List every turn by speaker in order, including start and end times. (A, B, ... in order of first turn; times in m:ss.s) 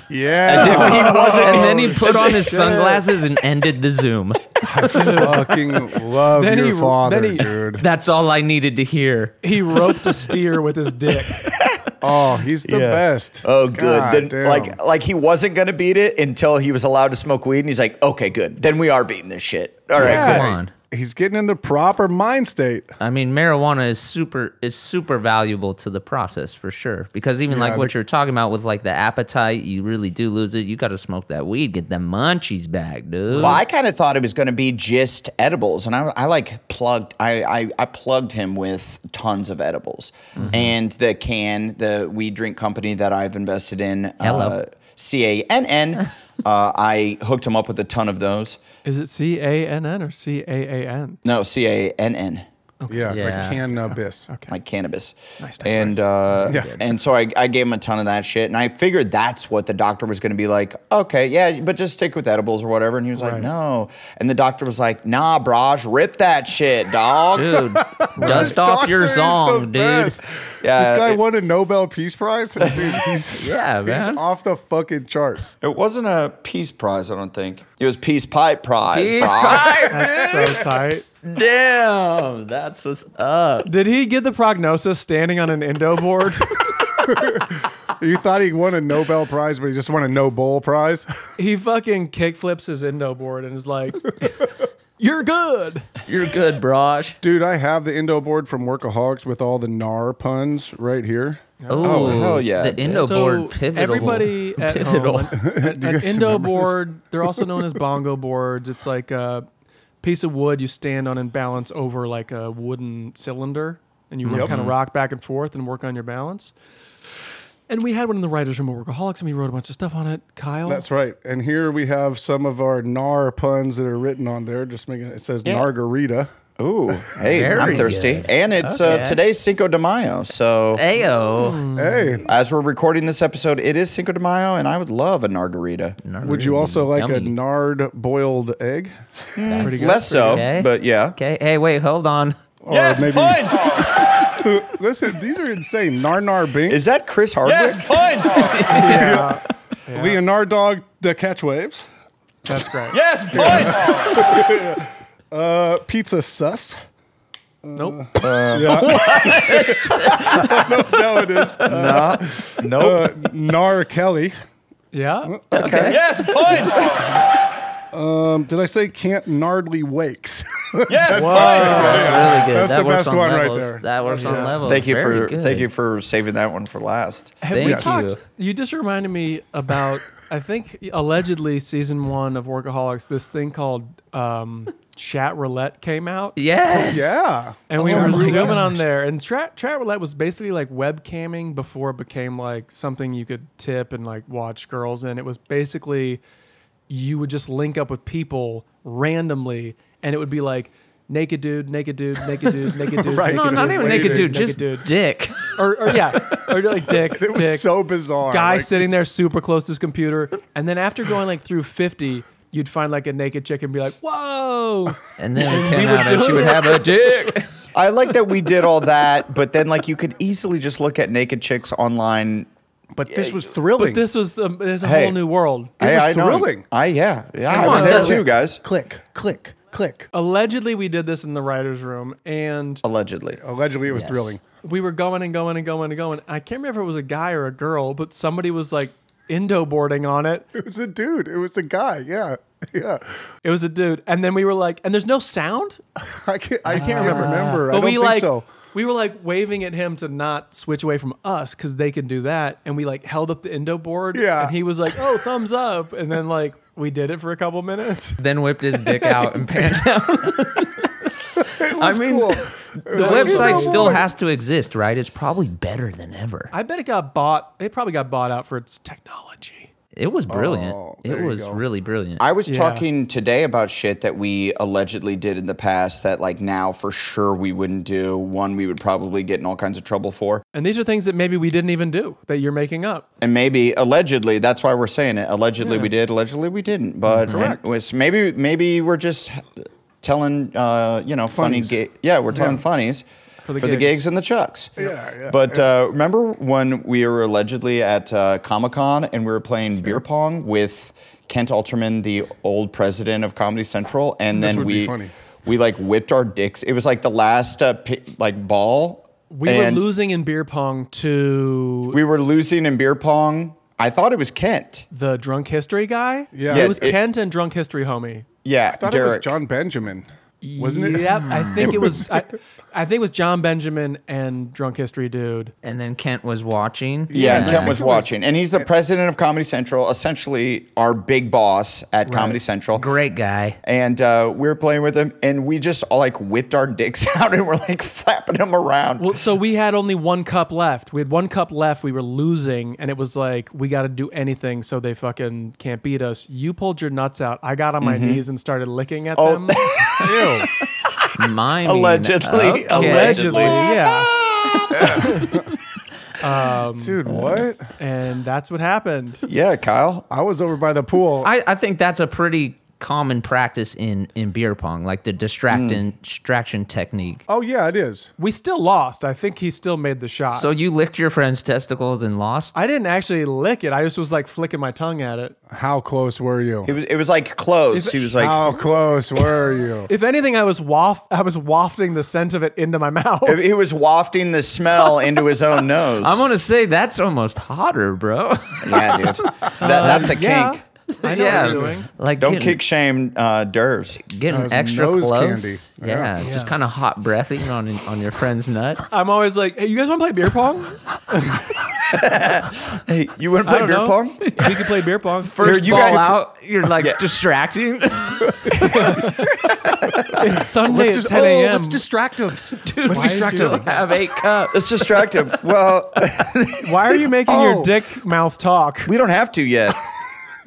0:00.1-0:02.0 A
0:00.5-0:02.3 B
0:00.6-0:03.1 C
0:00.7-0:05.5 D
0:04.7-0:07.9 A
0:04.9-0:05.3 C
0:06.3-0:07.5 C
0:07.8-0:10.1 D
0:09.4-0:11.5 C
0:11.4-0:11.9 B
0:12.0-0:14.8 A
0:12.6-0:20.6 B
0:20.0-0:20.7 D
0:20.0-0:22.9 A
0:23.0-0:33.6 D
0:27.5-0:27.9 A
0:33.3-0:48.6 B
0:40.4-0:40.6 C
0:44.2-0:44.6 D
0:48.8-0:51.2 C
0:51.2-0:52.4 B
0:52.8-0:54.5 C
0:52.9-0:54.3 A
0:53.1-0:53.6 D
0:54.5-1:07.7 B
0:55.4-0:56.0 C
0:56.5-0:56.8 A
1:03.2-1:03.5 C
1:07.4-1:10.2 D
1:07.8-1:15.6 A
1:08.2-1:08.5 C
1:10.6-1:11.2 B
1:12.6-1:13.0 B
1:13.3-1:14.2 D
1:15.6-1:20.1 B
1:18.9-1:20.6 D
1:19.9-1:21.0 C
1:21.2-1:23.7 D
1:23.6-1:26.7 C
1:27.1-1:31.1 A
1:31.4-1:34.5 C
1:35.0-1:35.9 C
1:36.1-1:37.2 D
1:37.2-1:42.4 A
1:41.6-1:42.3 C
1:41.7-1:45.4 D
1:41.8-1:43.4 B
1:43.0-1:49.5 C
1:45.4-1:47.6 A
1:50.0-1:56.5 C
1:54.2-1:54.8 D
1:54.3-1:54.6 A
1:57.7-2:00.9 C
2:00.7-2:06.3 A
2:06.6-2:10.8 B
2:07.0-2:07.9 A
2:07.3-2:09.2 D
2:10.8-2:11.6 D
2:11.4-2:12.2 C
2:11.8-2:12.3 A
2:12.3-2:16.0 B
2:16.0-2:17.4 D
2:16.2-2:19.0 A
2:19.4-2:21.2 B
2:19.5-2:22.4 D
2:19.6-2:20.5 C
2:22.6-2:26.9 A
2:22.7-2:24.3 B
2:26.7-2:28.9 B
2:28.7-2:29.4 A
2:28.7-2:30.2 C
2:28.8-2:29.2 D
2:29.9-2:31.9 A
2:32.5-2:33.0 C
2:32.9-2:34.4 B
2:33.3-2:36.8 A
2:37.6-2:44.4 A
2:38.2-2:39.4 B
2:38.6-2:40.6 D
2:40.1-2:40.6 B
2:41.6-2:43.3 B
2:44.9-2:45.4 C
2:45.2-2:45.8 A
2:45.5-2:47.2 B
2:45.5-2:46.8 D
2:47.9-2:54.5 A
2:50.9-2:52.5 B
2:51.1-2:52.2 C
2:51.4-2:55.7 D
2:54.1-2:54.6 C
2:54.6-2:57.4 B
2:57.4-3:06.4 C
2:57.5-2:58.2 D
2:57.6-2:58.0 A
3:06.4-3:07.2 D
3:06.7-3:08.8 A
3:07.7-3:16.2 C
3:07.8-3:08.6 D
3:16.9-3:24.9 C
3:23.0-3:24.4 A
3:23.3-3:25.5 D
3:25.4-3:27.7 C
3:26.5-3:29.0 A
3:28.2-3:36.9 C
3:35.2-3:37.5 D
3:37.7-3:42.5 B
3:43.0-3:44.1 A
3:43.1-3:43.4 B
3:43.8-3:45.8 C
3:44.8-3:45.2 B
3:45.8-3:48.6 B
3:45.8-3:46.7 A
3:47.5-3:50.1 A
3:47.5-3:48.2 D
3:50.1-3:52.8 C
3:52.8-3:53.4 B
3:53.4-3:54.4 A
3:53.9-3:54.4 D
3:54.6-4:00.5 C
4:00.6-4:03.2 A
4:03.4-4:05.8 C
4:06.0-4:08.5 A
4:06.7-4:18.2 C
4:06.8-4:07.6 D
4:14.1-4:14.6 A
4:18.2-4:26.5 D
4:21.4-4:24.1 A
4:22.9-4:24.0 C
4:26.5-4:29.7 C
4:30.0-4:32.2 D
4:30.3-4:31.6 A
4:32.2-4:40.4 B
4:32.5-4:32.8 C
4:40.5-4:43.0 C
4:43.2-4:53.0 B
4:47.1-4:47.6 A
4:51.3-4:51.8 A
4:53.4-4:54.0 C
4:53.6-5:09.9 B
4:54.8-4:55.7 A
5:04.3-5:05.1 A
5:09.3-5:12.0 C
5:11.9-5:14.9 B
5:14.9-5:18.3 C
5:16.3-5:16.9 A
5:16.5-5:17.0 B
5:18.4-5:19.4 B
5:18.7-5:20.1 A
5:20.4-5:25.5 C
5:20.6-5:22.2 A
5:21.4-5:21.7 D
5:25.6-5:27.8 D
5:27.1-5:28.7 A
5:27.1-5:32.9 B
5:27.2-5:27.7 C
5:32.1-5:32.4 C
5:32.7-5:33.6 D
5:33.6-5:39.2 B
5:39.0-5:49.9 C
5:47.8-5:48.2 B
5:49.2-5:55.1 B
5:50.0-5:50.5 A
5:51.2-5:53.8 D
5:52.7-5:54.1 C
5:54.5-5:55.3 D
5:54.7-5:55.4 A
5:55.0-5:55.3 C
5:56.2-5:57.0 C
5:56.8-5:57.7 A
5:57.1-5:57.4 B
5:57.8-5:59.3 C
5:59.3-6:00.1 B
6:00.1-6:01.3 A
6:01.2-6:07.2 D
6:05.5-6:05.8 B
6:07.3-6:08.1 A
6:08.2-6:10.5 C
6:10.3-6:12.6 D
6:12.5-6:15.4 C
6:15.5-6:16.7 A
6:16.6-6:18.6 B
6:17.7-6:18.6 C
6:18.2-6:19.9 A
6:19.9-6:23.4 C
6:23.2-6:26.2 B
6:26.0-6:30.2 D
6:28.6-6:30.6 B
6:29.6-6:31.9 C
6:31.0-6:32.6 D
6:32.2-6:34.0 B
6:34.1-6:38.9 D
6:34.3-6:36.2 A
6:36.2-6:36.5 C
6:38.9-6:41.4 C
6:41.9-6:44.2 B
6:43.4-6:45.9 C
6:44.2-6:44.7 D
6:45.2-6:48.9 D
6:45.4-6:47.0 B
6:48.6-6:49.3 C
6:49.5-6:50.0 B
6:50.1-6:51.8 C
6:50.6-6:53.8 A
6:52.6-6:55.2 D
6:52.9-6:53.7 C
6:54.5-6:57.0 B
6:56.6-6:58.9 C
6:57.3-6:57.7 A
6:58.8-6:59.8 B